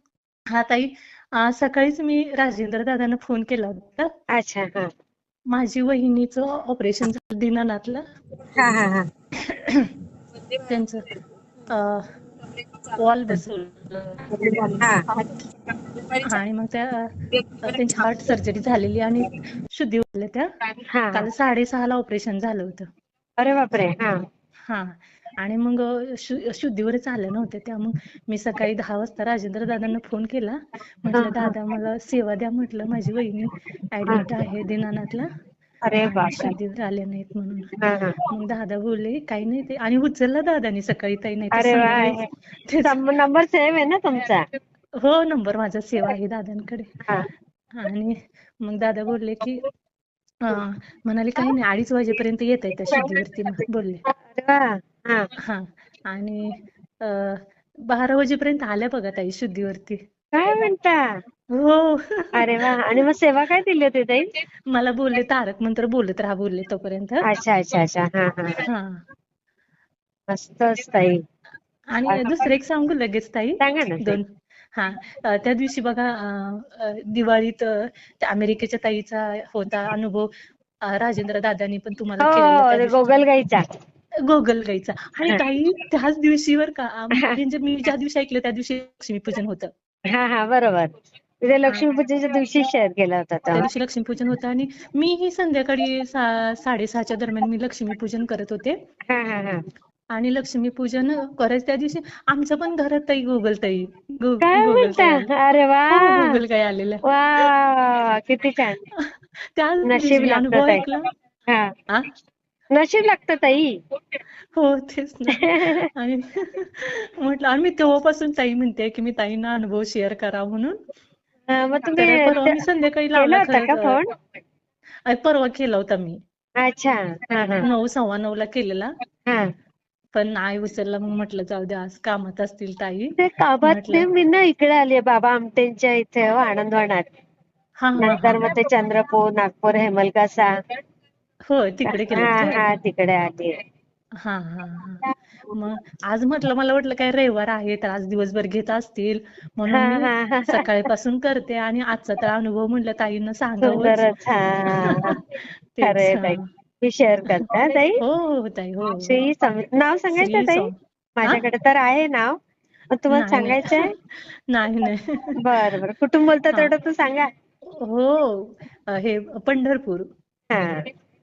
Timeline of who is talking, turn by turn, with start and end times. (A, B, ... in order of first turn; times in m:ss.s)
0:00.5-0:04.1 A
0:04.3-0:04.9 B
0:05.5-0:08.0 A
0:08.5-0:09.1 B
0:09.4-0:09.9 A
0:10.6-0:11.1 A
0:11.7-0:12.0 A
0:13.0-0:14.3 A
0:14.3-0:15.0 B
0:16.2-0:17.1 A
0:17.6-0:20.5 A
0:20.9-0:21.3 B
0:21.1-0:22.9 A
0:23.4-0:24.2 B
0:24.7-0:35.3 A
0:31.1-0:31.5 B
0:35.8-0:36.5 B
0:36.0-0:37.7 A
0:37.8-0:38.2 B
0:38.3-0:42.9 A
0:41.5-0:42.3 B
0:42.8-0:44.4 B
0:45.0-0:46.9 A
0:47.7-0:49.6 A
0:50.4-0:54.0 A
0:54.2-0:55.3 B
0:55.4-1:00.0 A
1:00.3-1:01.0 B
1:01.5-1:03.0 A
1:02.4-1:04.3 B
1:04.7-1:07.2 A
1:07.3-1:08.6 B
1:08.6-1:09.0 A
1:10.3-1:11.2 B
1:11.9-1:20.3 A
1:12.1-1:12.4 B
1:13.6-1:14.2 B
1:20.9-1:23.1 A
1:22.2-1:23.6 B
1:24.2-1:29.7 A
1:30.1-1:30.9 B
1:31.4-1:33.7 B
1:33.5-1:38.8 A
1:39.1-1:39.6 B
1:40.1-1:45.3 A
1:44.4-1:46.4 B
1:45.9-1:47.5 A
1:47.1-1:48.8 B
1:48.9-1:51.1 A
1:49.8-1:50.8 B
1:52.7-1:53.7 B
1:54.5-2:00.8 A
1:55.4-1:55.9 B
2:01.5-2:02.6 B
2:02.0-2:04.0 A
2:03.2-2:04.1 B
2:05.1-2:06.2 A
2:06.6-2:07.6 B
2:07.6-2:08.9 A
2:10.1-2:14.1 A
2:13.2-2:17.0 B
2:17.8-2:18.4 A
2:18.0-2:20.5 B
2:21.5-2:22.6 A
2:21.9-2:23.5 B
2:24.2-2:34.0 A
2:29.7-2:30.6 B
2:33.6-2:35.2 B
2:34.7-2:35.2 A
2:35.8-2:36.4 A
2:35.8-2:38.0 B
2:38.0-2:39.2 A
2:39.0-2:42.3 B
2:40.1-2:41.4 A
2:42.9-2:43.9 B
2:43.1-2:45.4 A
2:45.4-2:47.2 B
2:47.7-2:50.1 A
2:50.5-2:50.8 B